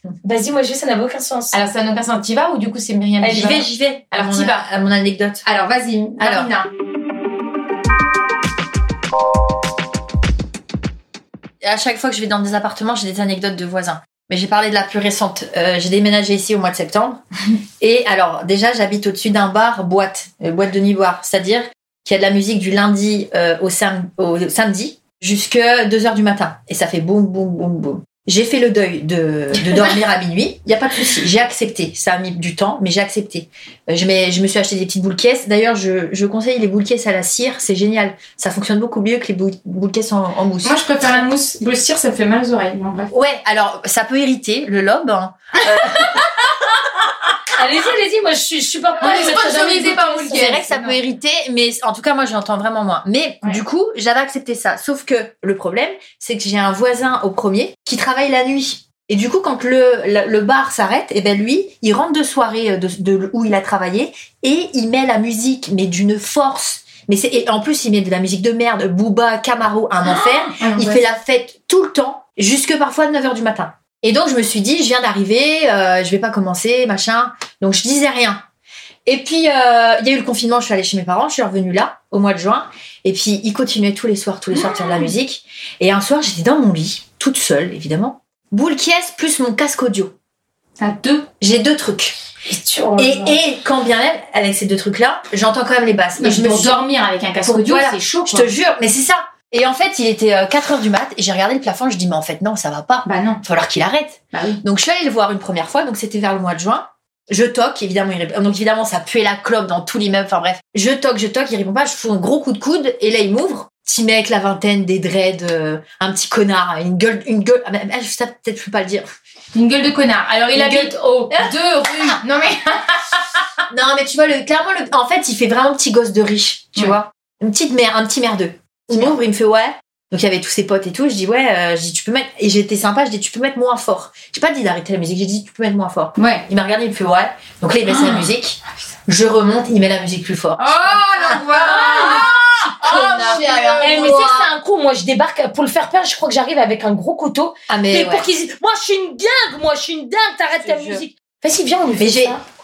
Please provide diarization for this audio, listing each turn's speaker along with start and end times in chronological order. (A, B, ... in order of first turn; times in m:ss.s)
0:00.2-0:01.6 A
0:01.5-0:04.6 B
0:03.2-0:05.4 C
0:05.4-0:06.7 B
0:06.2-0:06.5 C
0:11.6-0:17.2 C
0:17.8-0:40.8 C
0:40.6-0:43.1 B
0:43.1-0:46.2 C
0:45.8-0:46.4 B
0:47.5-0:50.3 A
0:49.0-0:51.0 B
0:49.0-1:18.4 C
1:10.0-1:11.0 B
1:19.1-1:30.1 C
1:24.5-1:25.1 B
1:30.8-1:31.3 B
1:31.4-1:32.2 C
1:32.4-1:33.4 A
1:33.0-1:36.8 C
1:36.2-1:38.5 B
1:37.4-1:59.1 C
1:43.0-1:43.4 B
1:44.3-1:44.6 B
1:59.5-2:03.4 B
2:00.5-2:01.6 C
2:03.7-2:24.5 C
2:16.2-2:16.4 B
2:17.9-2:18.3 B
2:20.6-2:24.2 B
2:21.6-2:32.4 A
2:27.7-2:28.3 C
2:30.6-2:31.0 C
2:32.0-2:32.4 C